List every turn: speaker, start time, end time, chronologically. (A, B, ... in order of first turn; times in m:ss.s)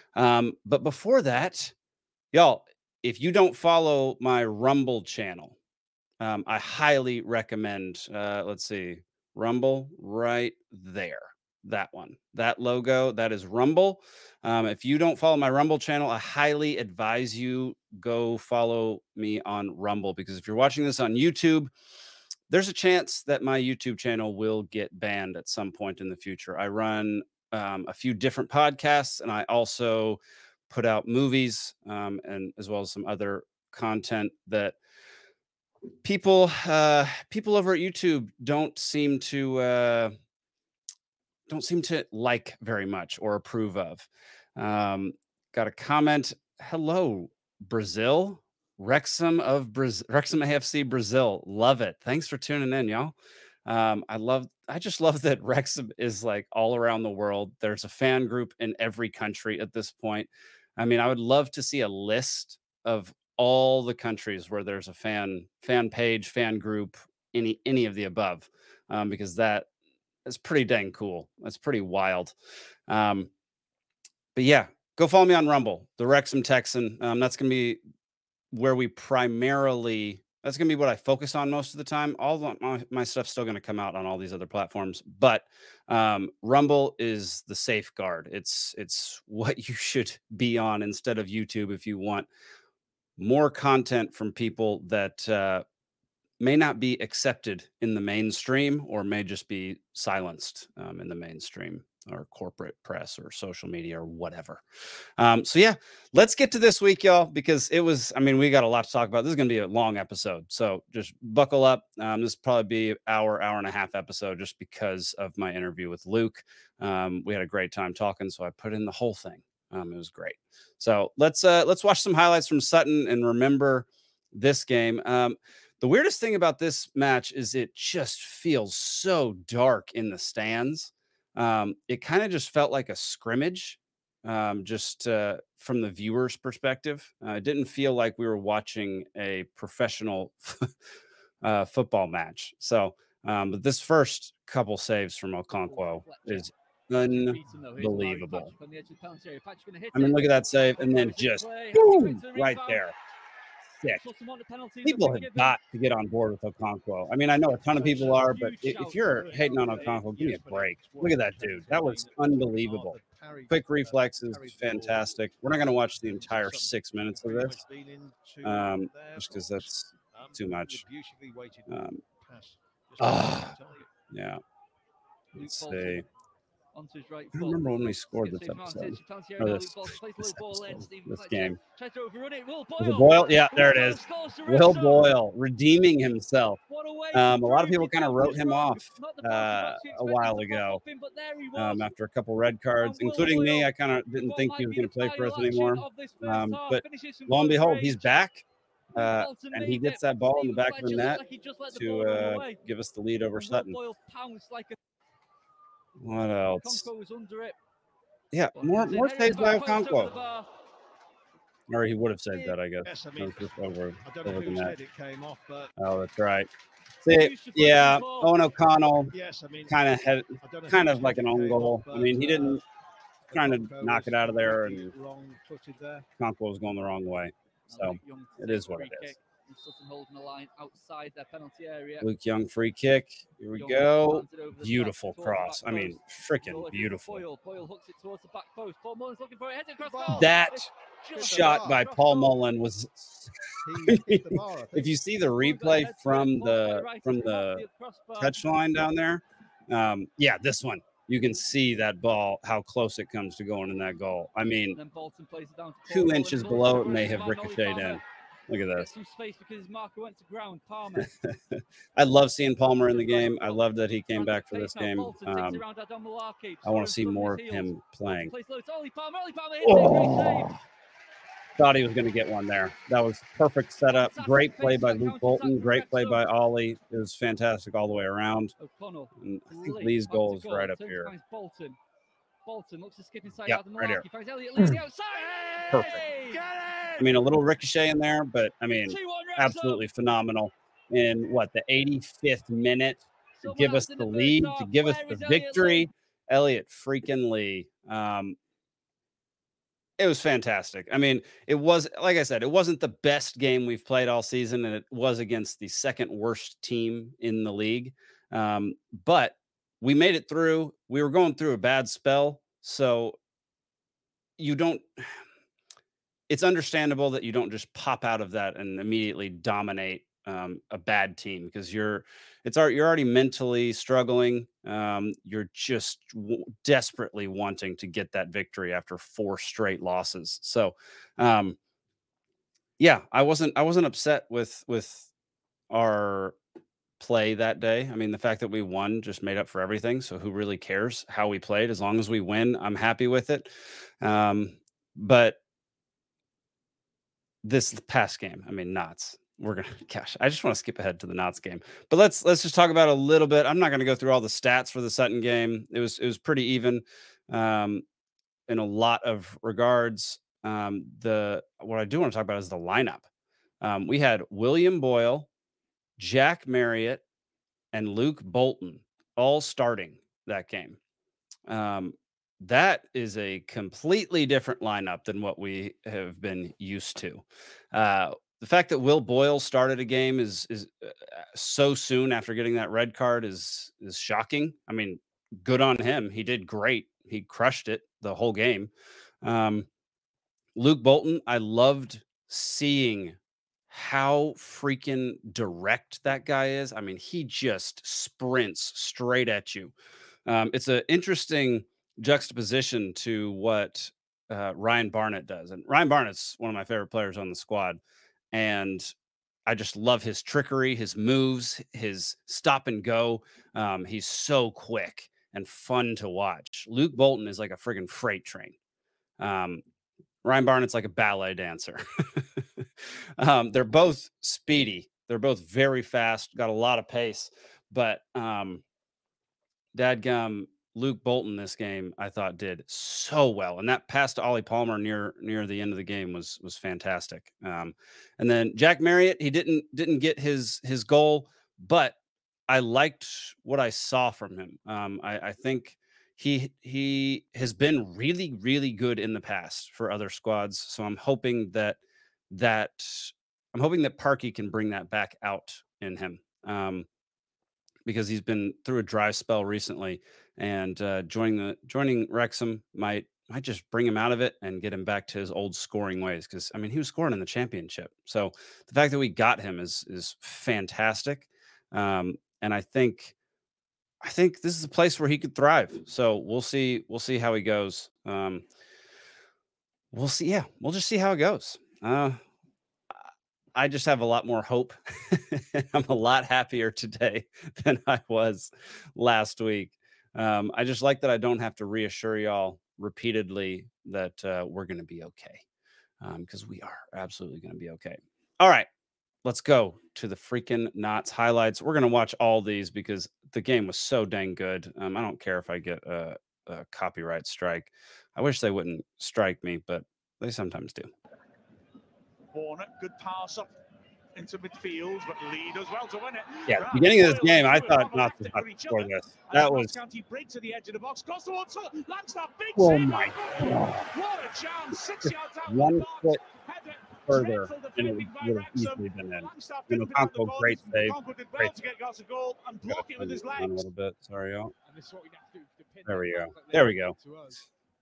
0:00.2-0:01.7 A
0:02.3-0:05.6 A
0:06.2-0:21.7 A
0:22.5-0:34.8 A
0:36.0-0:40.1 A
0:41.5-0:53.1 A
0:53.7-1:09.7 A
1:10.2-1:12.3 A
1:12.9-1:13.3 A
1:14.3-1:17.8 A
1:18.5-1:32.3 A
1:33.2-1:35.6 A
1:36.4-1:44.6 A
1:45.2-2:20.7 A
2:21.4-2:28.5 A
2:25.6-2:32.9 B
2:29.9-2:32.9 A
2:34.0-2:35.6 B
2:34.8-2:43.0 A
2:37.7-2:40.0 B
2:39.0-2:45.1 C
2:43.5-2:47.6 A
2:46.1-2:53.9 C
2:48.4-2:50.8 A
2:51.7-2:52.0 A
2:53.0-2:53.5 A
2:54.1-2:54.4 A
2:55.3-2:56.0 B
2:55.3-2:56.0 A
2:56.7-3:05.2 B
2:57.3-3:01.6 A
3:02.8-3:06.6 A
3:06.7-3:11.9 B
3:07.1-3:10.8 A
3:11.5-3:18.4 A
3:12.7-3:18.2 B
3:18.9-3:21.2 A
3:19.0-3:22.6 B
3:21.7-3:23.8 A
3:23.3-3:24.8 B
3:26.0-3:26.9 A
3:26.5-3:27.6 B
3:28.3-3:30.1 A
3:28.6-3:30.5 B
3:31.7-3:34.7 A
3:32.8-3:35.7 C
3:35.8-3:36.5 A
3:37.0-3:39.1 A
3:37.0-3:38.4 B
3:39.1-3:39.8 C
3:39.7-3:42.6 A
3:40.4-3:42.6 C
3:43.3-3:46.0 C
3:43.3-3:44.9 A
3:46.2-3:49.1 A
3:47.7-3:52.1 B
3:52.0-3:57.2 A
3:53.5-4:02.3 B
3:59.8-4:00.4 C
4:00.1-4:07.6 A
4:01.1-4:02.3 C
4:03.6-4:05.1 C
4:05.4-4:08.5 B
4:08.2-4:14.8 A
4:14.7-4:18.0 B
4:15.9-4:18.9 A
4:18.8-4:21.1 B
4:21.5-4:25.6 A
4:22.8-4:30.5 B
4:26.6-4:28.3 A
4:29.6-4:30.6 A
4:31.6-4:38.5 A
4:33.9-4:36.3 B
4:38.6-4:41.8 B
4:39.2-4:41.1 A
4:42.4-4:47.1 B
4:43.5-4:44.0 A
4:45.7-4:46.0 A
4:47.0-4:58.4 A
4:48.9-4:49.9 B
4:53.4-4:55.9 B
5:00.0-5:13.2 A
5:14.4-5:15.1 A
5:16.3-5:31.6 A
5:32.8-5:35.1 A
5:35.7-5:36.4 A
5:37.0-5:43.5 A
5:44.0-5:45.4 A
5:47.4-5:57.8 A
5:58.5-6:03.0 A
6:03.6-6:05.3 A
6:06.0-6:07.0 A
6:07.7-6:10.8 A
6:11.5-6:28.7 A
6:29.2-6:29.7 A
6:30.6-6:33.2 A
6:33.7-6:39.7 A
6:40.2-6:47.8 A
6:48.3-6:48.9 A
6:49.4-6:58.5 A
6:59.2-6:59.6 A
7:00.2-7:02.4 A
7:03.2-7:08.6 A
7:09.7-7:22.0 A
7:22.5-7:31.8 A
7:32.3-7:36.8 A
7:37.8-7:53.1 A
7:54.0-7:58.4 A
7:59.9-8:02.2 A
8:03.5-8:15.4 A
8:16.0-8:18.7 A
8:19.2-8:30.9 A
8:32.3-8:33.6 D
8:34.1-8:53.6 D
8:36.5-8:39.8 A
8:42.6-8:43.9 A
8:45.0-8:46.2 A
8:47.1-8:51.5 A
8:52.6-8:54.5 A
8:54.6-8:57.5 C
8:55.8-8:56.9 A